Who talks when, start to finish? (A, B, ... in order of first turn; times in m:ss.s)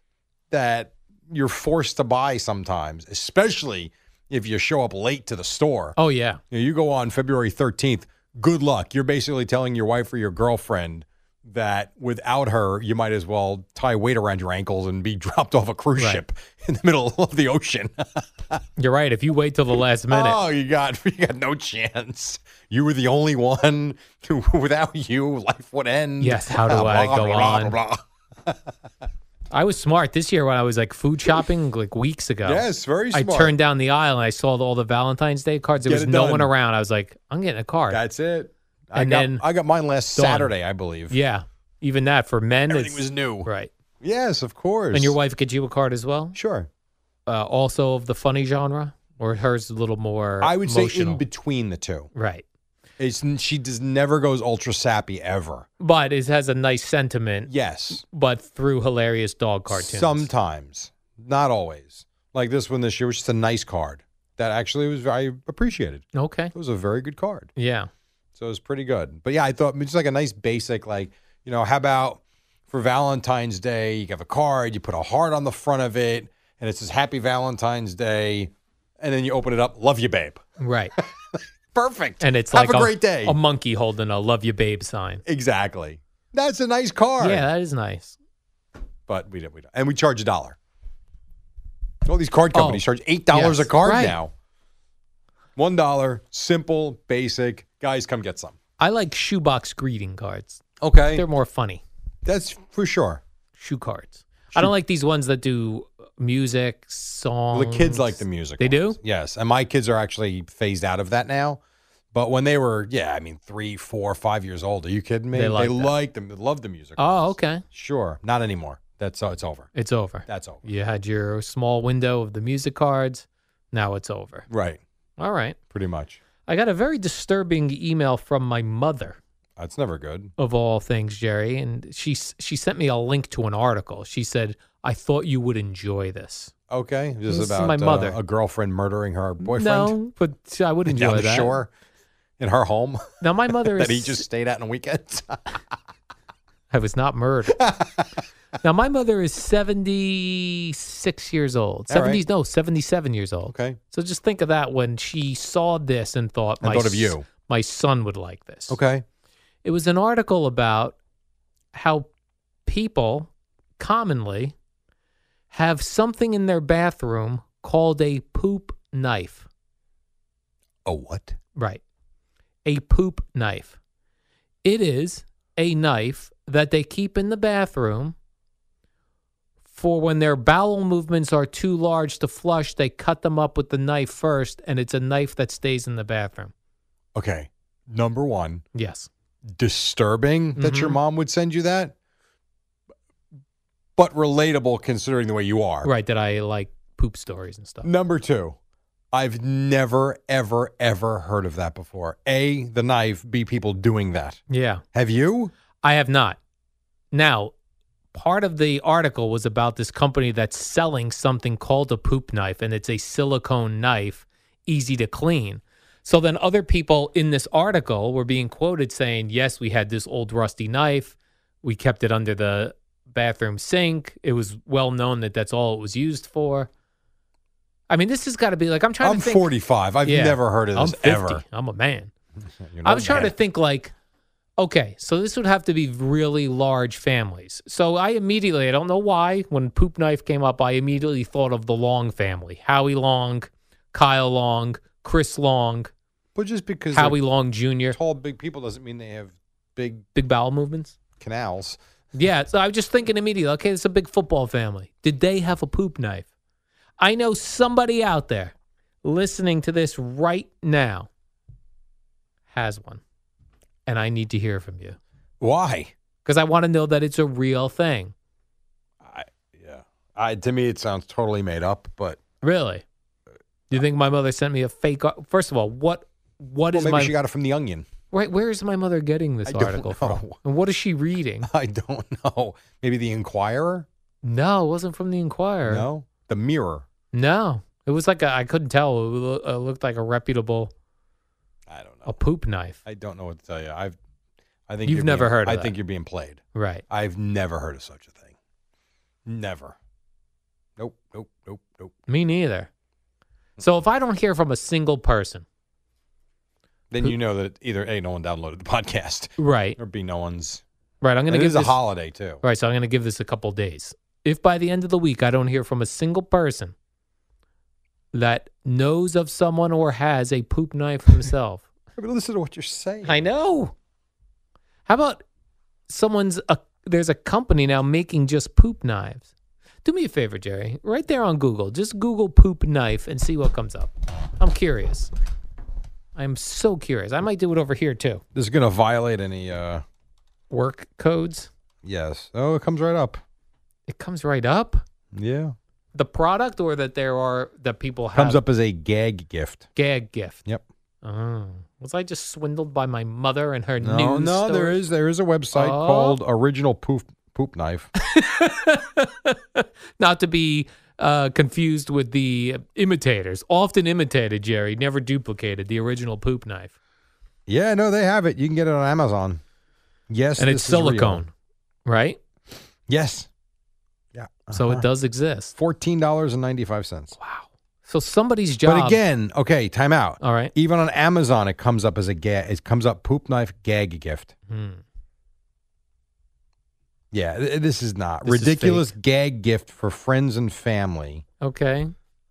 0:00.5-0:06.0 A
0:06.0-0:06.4 B
0:06.5-0:18.6 A
0:16.0-0:16.2 B
0:18.8-0:20.4 B
0:20.1-0:28.6 A
0:26.2-0:27.8 B
0:29.5-0:38.0 B
0:32.4-0:33.6 A
0:35.8-0:36.5 A
0:37.9-0:41.2 A
0:39.0-0:39.4 B
0:40.2-0:40.5 B
0:41.1-0:43.7 B
0:42.7-0:43.5 A
0:44.0-0:45.2 A
0:44.9-0:46.4 B
0:46.4-0:46.7 A
0:47.3-0:51.2 B
0:50.4-0:52.1 A
0:52.2-0:52.4 B
0:53.0-0:55.7 A
0:55.8-1:00.3 B
0:57.5-0:58.0 A
0:59.7-1:07.5 A
1:06.2-1:06.5 B
1:07.6-1:07.9 B
1:08.4-1:20.4 A
1:20.6-1:20.9 B
1:21.0-1:23.4 A
1:22.2-1:25.2 B
1:25.2-1:27.5 A
1:27.2-1:28.2 B
1:29.1-1:30.6 A
1:32.0-1:34.3 A
1:32.5-1:34.2 B
1:35.6-1:38.6 A
1:38.8-1:40.6 B
1:40.8-1:41.3 A
1:41.1-1:41.8 B
1:42.2-1:43.2 A
1:43.6-1:49.0 B
1:47.5-1:51.6 A
1:52.1-1:59.7 A
1:55.3-1:55.9 B
1:57.0-1:57.6 B
1:59.8-2:04.5 B
2:00.3-2:00.7 A
2:04.5-2:04.8 A
2:05.2-2:05.6 B
2:05.7-2:06.2 A
2:06.4-2:09.2 B
2:09.6-2:10.3 A
2:10.4-2:16.5 B
2:16.7-2:20.0 A
2:17.3-2:18.2 B
2:19.4-2:21.6 B
2:20.9-2:21.7 A
2:22.4-2:25.4 A
2:23.2-2:24.2 B
2:26.7-2:27.6 B
2:27.6-2:28.1 A
2:28.6-2:38.8 B
2:31.9-2:32.2 A
2:33.5-2:33.8 A
2:36.6-2:37.3 A
2:38.7-2:39.0 A
2:39.6-2:41.0 B
2:41.7-2:42.1 B
2:42.7-2:44.5 B
2:45.5-2:49.5 B
2:50.8-2:51.4 A
2:51.6-2:51.8 B
2:52.6-2:53.8 B
2:54.6-2:58.2 B
2:59.7-3:06.5 B
3:07.2-3:08.6 A
3:08.8-3:09.1 B
3:09.5-3:11.9 A
3:10.6-3:11.0 B
3:14.0-3:15.9 A
3:15.8-3:17.9 B
3:17.8-3:18.6 A
3:19.1-3:24.4 A
3:24.5-3:24.8 B
3:24.9-3:25.5 A
3:25.8-3:26.4 B
3:27.1-3:27.5 B
3:28.1-3:46.7 B
3:47.9-3:49.5 B
3:49.0-3:51.4 A
3:50.0-3:52.1 B
3:52.6-3:53.3 A
3:52.8-3:53.9 B
3:54.6-4:05.9 B
4:06.4-4:07.2 A
4:06.9-4:08.0 B
4:07.9-4:10.0 A
4:10.1-4:11.0 B
4:11.2-4:11.8 A
4:12.2-4:16.3 B
4:17.0-4:21.1 B
4:22.5-4:23.0 B
4:23.9-4:25.0 B
4:25.4-4:25.9 A
4:26.2-4:28.1 B
4:29.0-4:32.2 A
4:32.4-4:32.8 B
4:33.7-4:37.1 B
4:36.7-4:37.9 A
4:38.1-4:41.5 B
4:39.5-4:40.4 A
4:41.4-4:43.9 A
4:44.2-4:45.9 B
4:45.7-4:46.9 A
4:47.1-4:50.7 B
4:51.7-4:52.2 A
4:52.1-4:52.8 B
4:52.8-4:54.0 A
4:54.7-4:58.3 A
4:54.8-4:55.8 B
4:56.5-4:56.8 B
4:59.3-4:59.8 A
5:00.8-5:01.9 A
5:02.1-5:02.7 B
5:03.6-5:05.4 B
5:06.9-5:10.6 A
5:09.4-5:09.8 B
5:11.0-5:11.8 B
5:11.3-5:12.4 A
5:12.4-5:16.7 B
5:18.1-5:21.6 B
5:22.0-5:23.2 A
5:23.0-5:23.7 B
5:24.9-5:25.2 B
5:25.9-5:29.3 B
5:29.8-5:35.1 B
5:36.2-5:38.2 B
5:38.3-5:39.8 A
5:40.5-5:41.5 B
5:41.8-5:43.2 A
5:43.9-5:44.8 B
5:45.1-5:45.6 A
5:46.0-5:48.4 B
5:48.1-5:49.7 A
5:49.8-5:50.4 B
5:51.0-5:54.8 B
5:53.8-5:57.9 A
5:55.5-5:56.2 B
5:58.0-6:06.7 B
6:07.5-6:09.4 A
6:10.1-6:11.2 A
6:10.4-6:11.3 B
6:11.9-6:12.2 B
6:12.9-6:13.3 A
6:14.1-6:14.9 A
6:14.5-6:15.6 B
6:15.6-6:17.2 A
6:17.2-6:19.0 B
6:18.6-6:24.3 A
6:20.2-6:20.5 B
6:24.5-6:24.8 B
6:27.1-6:31.2 A
6:28.2-6:28.9 B
6:31.4-6:31.9 B